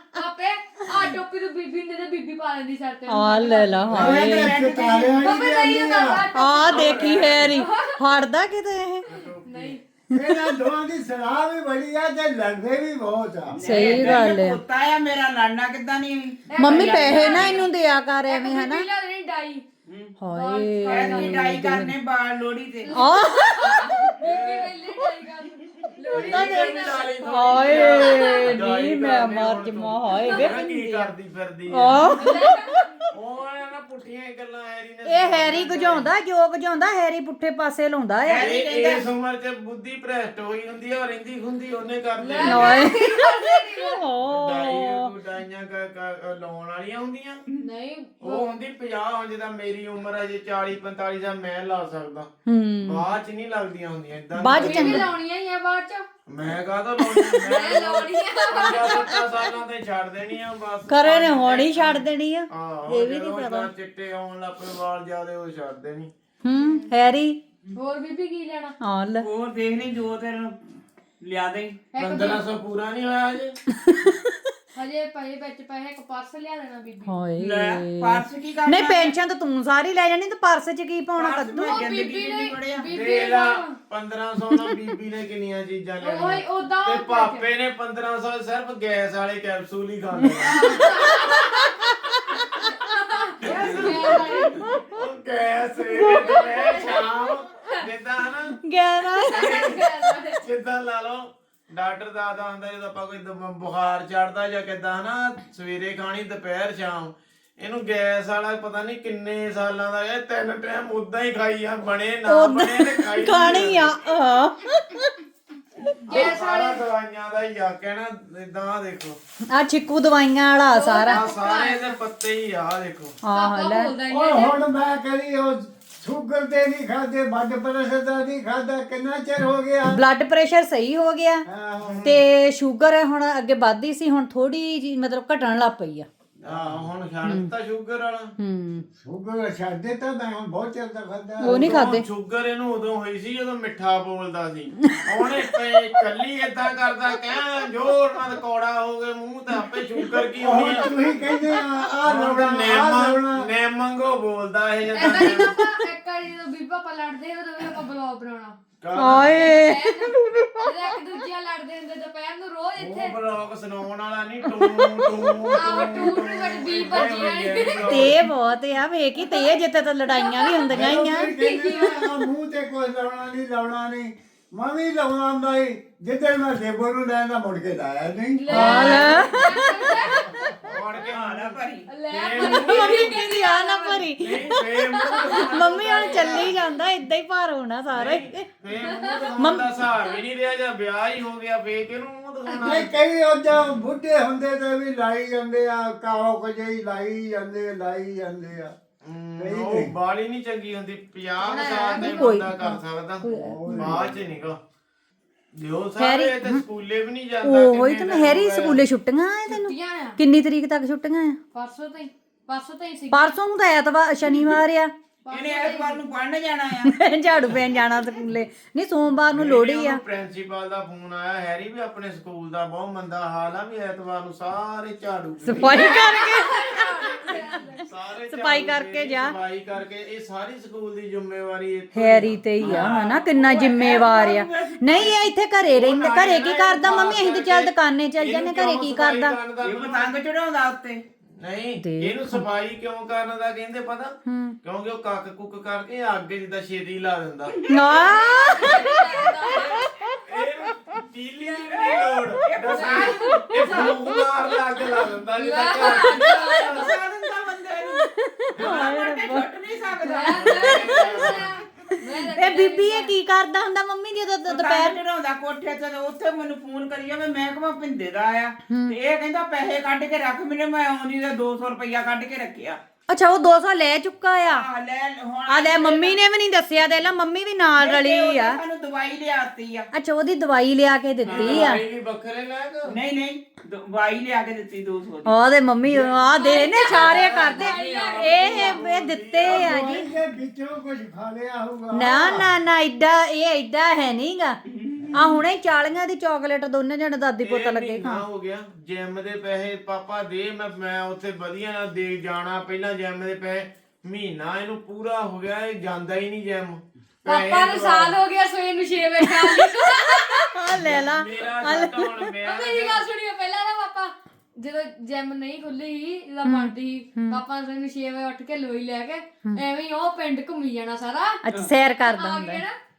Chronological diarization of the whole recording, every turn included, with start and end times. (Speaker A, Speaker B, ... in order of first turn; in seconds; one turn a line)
Speaker A: 0.1-3.9
Speaker B: 3.1-4.5
Speaker C: 3.9-6.2
Speaker D: 3.9-5.4
Speaker A: 5.2-8.0
Speaker B: 6.3-9.1
Speaker D: 6.7-7.5
Speaker E: 9.1-9.8
Speaker A: 9.4-9.8
Speaker C: 10.1-14.2
Speaker B: 10.2-10.5
Speaker D: 13.5-17.6
Speaker B: 13.6-14.6
Speaker A: 16.5-17.7
Speaker B: 16.6-18.8
Speaker A: 18.3-19.6
Speaker D: 19.9-20.2
Speaker B: 20.2-21.9
Speaker A: 20.3-21.6
Speaker D: 20.9-22.9
Speaker A: 22.9-28.6
Speaker B: 22.9-24.1
Speaker E: 24.2-24.7
Speaker E: 26.1-32.0
Speaker B: 26.2-26.6
Speaker B: 27.3-31.1
Speaker A: 30.1-30.5
Speaker B: 31.7-32.5
Speaker A: 32.0-32.9
Speaker E: 33.1-36.1
Speaker B: 35.0-38.5
Speaker D: 38.2-39.0
Speaker E: 38.4-42.8
Speaker A: 42.2-44.0
Speaker B: 42.4-45.1
Speaker E: 44.2-47.4
Speaker A: 47.6-48.5
Speaker E: 48.2-52.3
Speaker B: 52.5-53.0
Speaker E: 52.8-55.1
Speaker B: 54.3-55.1
Speaker A: 54.5-56.0
Speaker E: 56.3-66.1
Speaker B: 57.1-57.5
Speaker A: 57.4-59.2
Speaker B: 60.9-63.7
Speaker B: 66.4-67.4
Speaker A: 66.5-66.9
Speaker A: 67.7-68.8
Speaker B: 68.8-69.3
Speaker D: 69.2-70.6
Speaker D: 71.2-71.8
Speaker A: 71.9-72.4
Speaker E: 72.0-73.6
Speaker B: 73.8-74.3
Speaker A: 74.7-77.2
Speaker B: 77.0-81.8
Speaker D: 77.4-79.1
Speaker D: 81.1-82.9
Speaker A: 81.7-83.7
Speaker E: 82.9-90.8
Speaker A: 86.0-87.5
Speaker A: 90.4-94.7
Speaker B: 90.4-91.3
Speaker B: 92.1-92.4
Speaker E: 93.4-94.3
Speaker D: 93.4-93.8
Speaker E: 94.9-98.6
Speaker A: 96.0-97.8
Speaker B: 98.6-99.5
Speaker A: 99.2-100.4
Speaker E: 99.3-99.9
Speaker E: 100.4-114.0
Speaker B: 112.3-115.1
Speaker A: 116.1-116.8
Speaker E: 116.1-119.2
Speaker B: 119.5-121.2
Speaker A: 120.7-122.0
Speaker E: 121.1-123.1
Speaker B: 123.2-123.9
Speaker A: 123.3-124.6
Speaker C: 124.1-130.0
Speaker B: 129.9-131.4
Speaker C: 131.5-132.1
Speaker E: 131.8-132.2
Speaker B: 132.0-136.1
Speaker C: 136.4-136.8
Speaker E: 136.4-138.3
Speaker B: 137.2-137.5
Speaker B: 138.4-138.8
Speaker C: 139.0-141.6
Speaker B: 141.4-142.0
Speaker E: 141.4-150.9
Speaker C: 150.4-153.5
Speaker E: 152.0-155.5
Speaker A: 154.9-158.6
Speaker E: 158.8-159.4
Speaker B: 159.0-160.6
Speaker A: 159.4-163.1
Speaker E: 162.8-168.2
Speaker B: 164.7-165.1
Speaker A: 165.5-168.2
Speaker B: 167.8-171.3
Speaker A: 169.2-169.6
Speaker A: 170.1-172.2
Speaker C: 170.7-179.0
Speaker A: 178.3-180.6
Speaker B: 178.5-179.7
Speaker E: 178.7-179.2
Speaker E: 180.4-183.2
Speaker D: 181.1-181.9
Speaker A: 181.9-186.6
Speaker B: 182.5-184.6
Speaker E: 184.2-186.6
Speaker B: 185.2-188.4
Speaker E: 187.9-192.9
Speaker A: 188.8-189.3
Speaker B: 189.4-189.7
Speaker C: 192.6-198.7
Speaker E: 199.0-204.6
Speaker C: 199.4-199.9
Speaker A: 201.4-202.4
Speaker B: 201.9-204.0
Speaker C: 203.2-204.2
Speaker E: 205.6-208.8
Speaker B: 206.0-206.6
Speaker B: 207.4-211.4
Speaker A: 209.5-210.2
Speaker A: 211.5-213.3
Speaker B: 213.1-214.9
Speaker A: 215.2-216.0
Speaker D: 215.3-216.9
Speaker B: 216.8-220.0
Speaker E: 219.3-226.1
Speaker B: 225.4-227.4
Speaker A: 225.6-227.8
Speaker E: 226.8-233.1
Speaker B: 228.3-229.3
Speaker B: 231.9-239.4
Speaker D: 232.6-235.1
Speaker E: 235.0-240.2
Speaker D: 239.6-241.0
Speaker E: 241.4-247.6
Speaker B: 241.8-242.4
Speaker B: 244.3-244.6
Speaker B: 247.7-249.8
Speaker A: 247.7-249.9
Speaker E: 249.5-256.9
Speaker D: 252.4-253.9
Speaker A: 252.7-254.0
Speaker A: 255.3-256.9
Speaker D: 255.8-260.8
Speaker B: 258.1-259.5
Speaker E: 258.6-258.9
Speaker A: 260.0-263.1
Speaker E: 260.3-261.5
Speaker B: 262.3-265.0
Speaker D: 264.4-272.8
Speaker B: 268.7-269.0
Speaker B: 273.1-274.6
Speaker D: 274.4-276.2
Speaker B: 275.5-278.6
Speaker D: 277.8-279.9
Speaker B: 279.9-281.8
Speaker D: 281.2-281.7
Speaker E: 281.3-283.0
Speaker D: 282.9-285.4
Speaker B: 285.2-290.1
Speaker A: 286.3-288.9
Speaker E: 286.8-290.1
Speaker C: 289.4-292.5
Speaker B: 291.9-294.6
Speaker D: 294.7-295.4
Speaker B: 295.1-298.2
Speaker E: 297.4-308.1
Speaker A: 307.2-310.6
Speaker B: 309.3-309.7
Speaker B: 310.5-312.2
Speaker E: 310.7-313.0
Speaker A: 312.4-321.4
Speaker B: 316.4-317.4
Speaker B: 321.4-322.6
Speaker A: 322.1-322.7